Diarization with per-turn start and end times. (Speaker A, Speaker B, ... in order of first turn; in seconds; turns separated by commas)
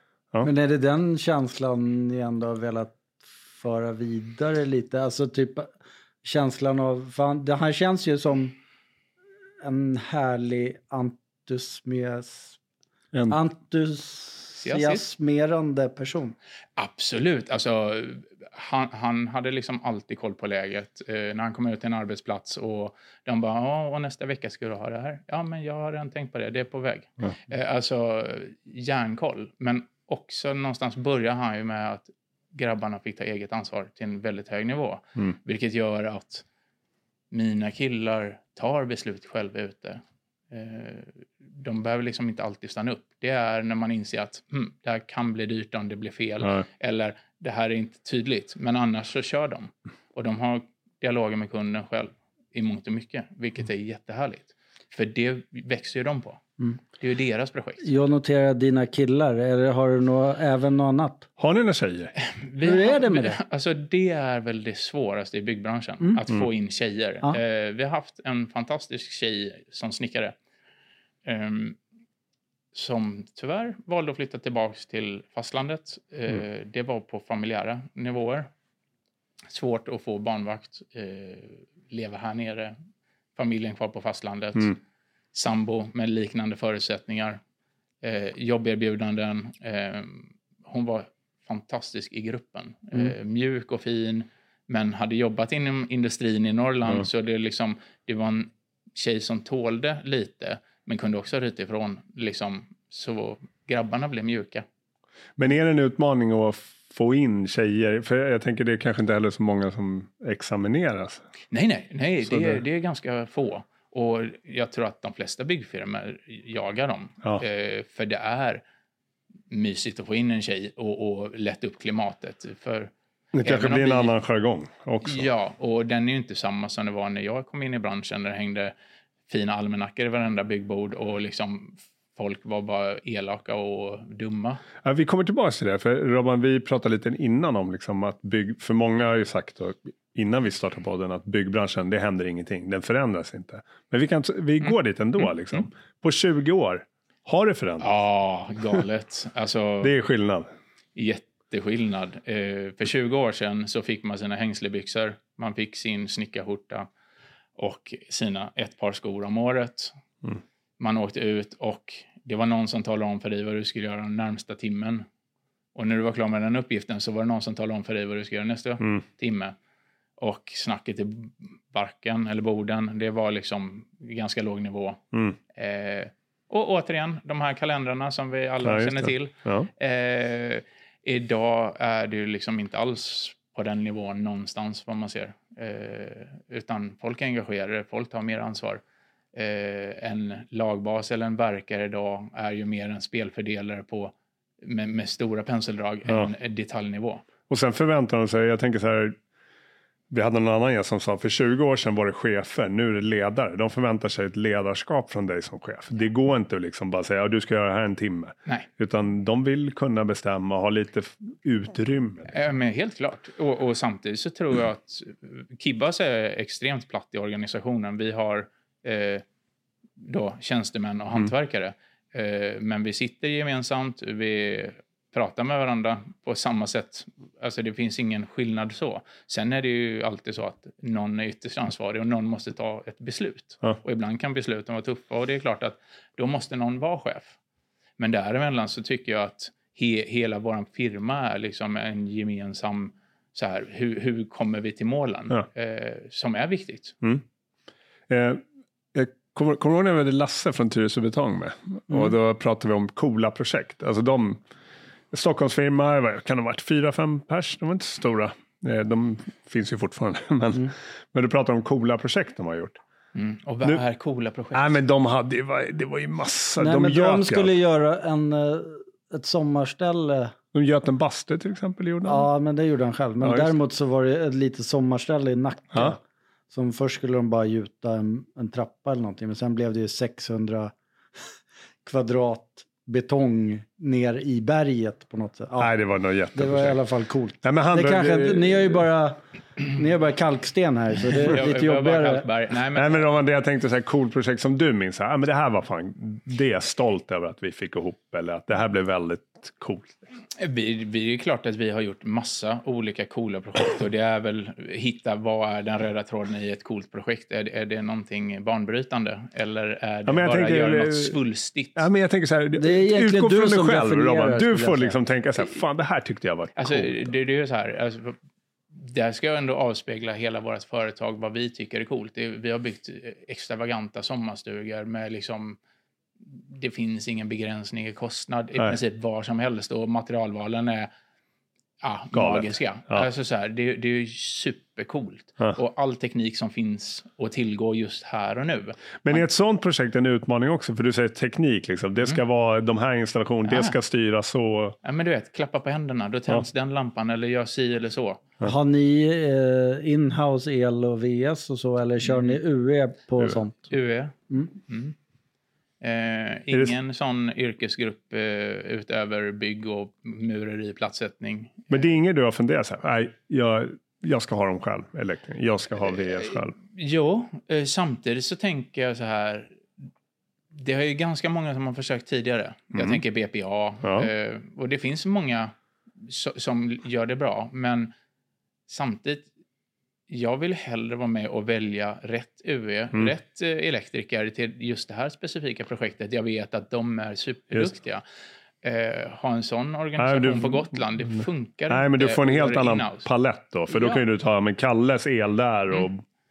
Speaker A: 0.4-5.7, Speaker A: 6.2-8.6, Speaker A: 9.6-12.6, Speaker B: 13.1-13.4, Speaker A: 13.3-16.4, Speaker C: 14.6-15.0, Speaker C: 16.8-36.5, Speaker C: 37.3-56.4, Speaker C: 57.0-57.9, Speaker A: 57.8-61.3, Speaker B: 61.4-62.1, Speaker C: 62.2-70.3, Speaker A: 62.6-63.4, Speaker C: 71.2-71.8, Speaker C: 72.7-78.5, Speaker C: 79.5-82.8, Speaker C: 83.3-84.8, Speaker C: 85.3-87.4, Speaker C: 88.0-104.7, Speaker B: 105.4-111.2, Speaker C: 111.5-118.6, Speaker B: 112.3-112.6, Speaker C: 119.5-124.2, Speaker B: 123.3-125.3, Speaker C: 125.0-128.7, Speaker C: 129.3-134.6, Speaker B: 134.8-147.9, Speaker C: 144.6-145.6, Speaker C: 147.8-149.9, Speaker B: 149.8-150.5, Speaker C: 150.9-156.9, Speaker C: 157.6-159.9, Speaker C: 160.8-165.1, Speaker C: 165.8-169.6, Speaker C: 170.2-175.0, Speaker C: 175.5-188.8, Speaker B: 178.6-179.7, Speaker C: 189.3-197.2, Speaker B: 196.1-196.3, Speaker B: 197.5-199.2, Speaker B: 200.1-212.3, Speaker C: 212.3-219.2, Speaker C: 220.0-237.4, Speaker C: 238.0-247.0, Speaker B: 248.1-248.4, Speaker B: 248.9-254.4, Speaker B: 255.1-262.8, Speaker C: 263.1-264.7, Speaker B: 264.5-267.5, Speaker A: 266.6-270.3, Speaker B: 270.5-272.3, Speaker A: 272.1-276.0, Speaker B: 273.2-273.5, Speaker A: 276.5-280.7, Speaker A: 281.9-285.7, Speaker B: 285.6-286.8, Speaker A: 286.4-292.3, Speaker B: 287.4-288.8, Speaker C: 291.2-293.1, Speaker B: 292.7-300.0, Speaker C: 300.4-311.9, Speaker B: 310.1-311.2, Speaker B: 311.8-317.0, Speaker A: 312.6-315.0, Speaker C: 316.6-318.2, Speaker C: 318.7-325.6, Speaker C: 326.3-330.9, Speaker C: 331.8-339.2, Speaker B: 332.1-333.1, Speaker B: 339.0-344.8, Speaker C: 343.5-343.8, Speaker C: 344.8-348.2, Speaker A: 348.4-353.7, Speaker C: 352.0-352.4, Speaker C: 353.7-354.9, Speaker C: 355.8-361.9, Speaker B: 361.7-366.6, Speaker C: 366.1-369.6, Speaker C: 370.5-377.9, Speaker B: 372.7-373.0, Speaker B: 373.8-374.1, Speaker C: 378.7-379.3, Speaker C: 380.1-388.0, Speaker C: 388.6-393.1, Speaker B: 390.0-396.0, Speaker C: 393.7-394.0